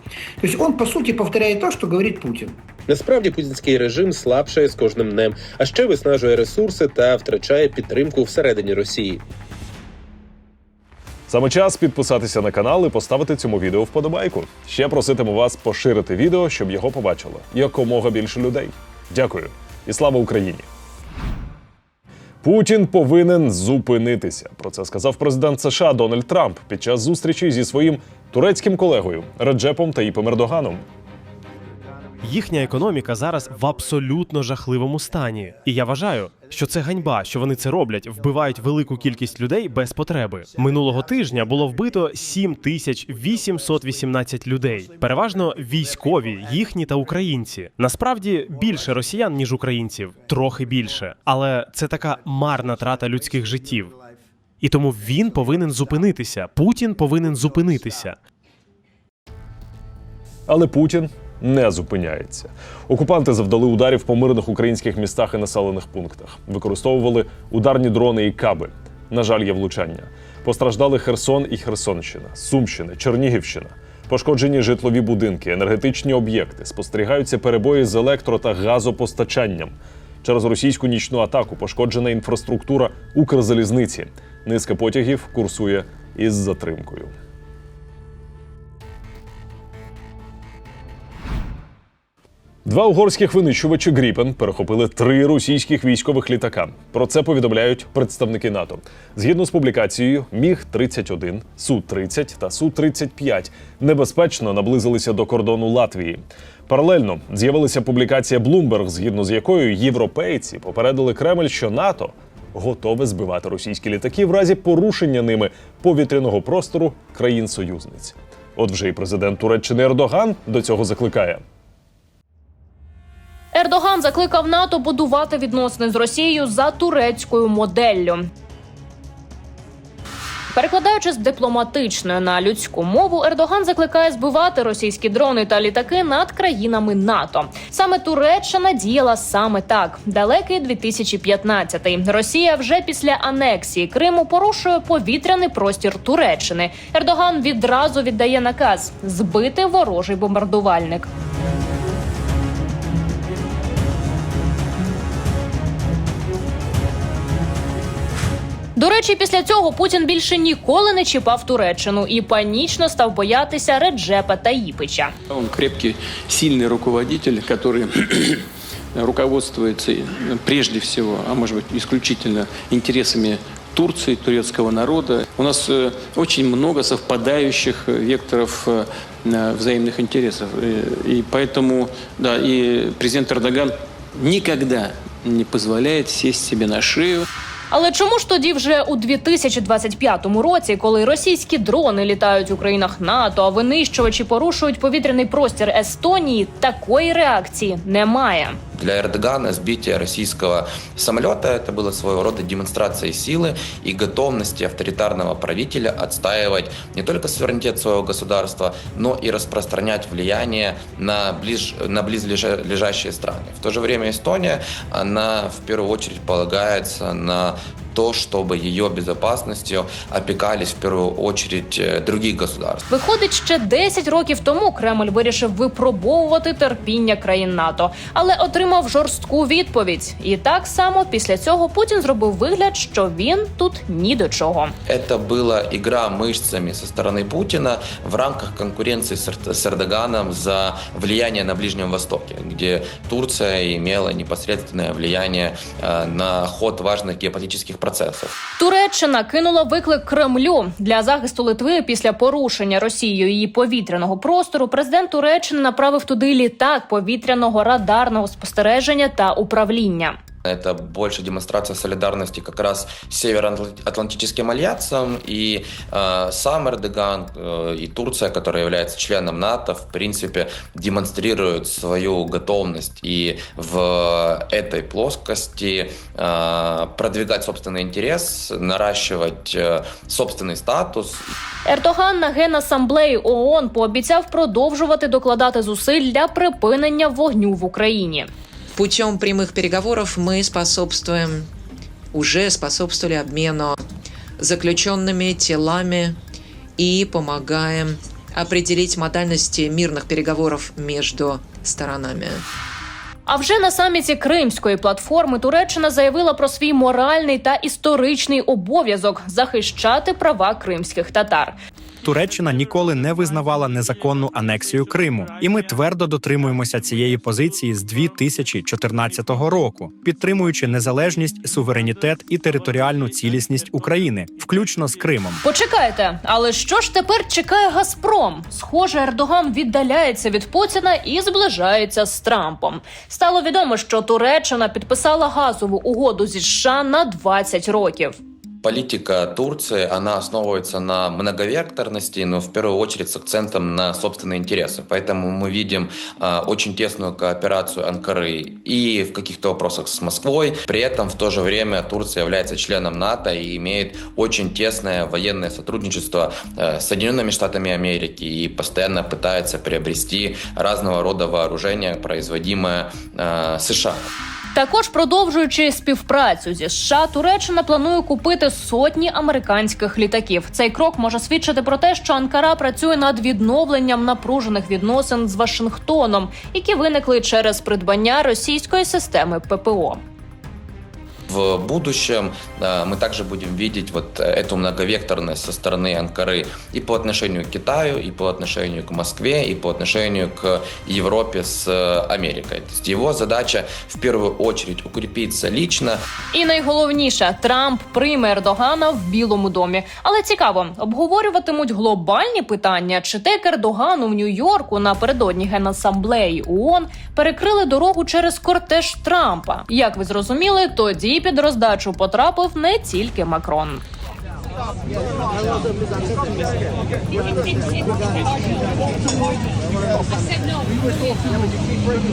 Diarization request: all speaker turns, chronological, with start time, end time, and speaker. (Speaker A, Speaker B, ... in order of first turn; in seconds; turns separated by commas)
Speaker A: 0.4-2.6, Speaker B: 2.9-9.2, Speaker C: 11.3-20.6, Speaker C: 22.4-30.8, Speaker D: 32.2-53.9, Speaker D: 54.6-58.2, Speaker C: 60.5-87.1, Speaker C: 92.7-121.4, Speaker E: 123.5-128.3, Speaker E: 130.5-151.1, Speaker E: 158.8-165.1, Speaker F: 165.3-187.3, Speaker E: 187.7-198.6, Speaker G: 198.7-222.8, Speaker E: 222.9-234.7, Speaker G: 234.8-248.3, Speaker E: 248.6-260.2, Speaker G: 260.4-281.3, Speaker E: 281.6-288.3, Speaker H: 288.7-291.5, Speaker H: 292.1-293.8, Speaker H: 294.4-296.2, Speaker H: 296.8-302.4, Speaker E: 303.2-311.6, Speaker I: 312.0-325.4, Speaker E: 325.4-338.2, Speaker G: 338.6-364.1, Speaker E: 364.5-380.0, Speaker G: 381.3-396.0, Speaker E: 396.3-413.8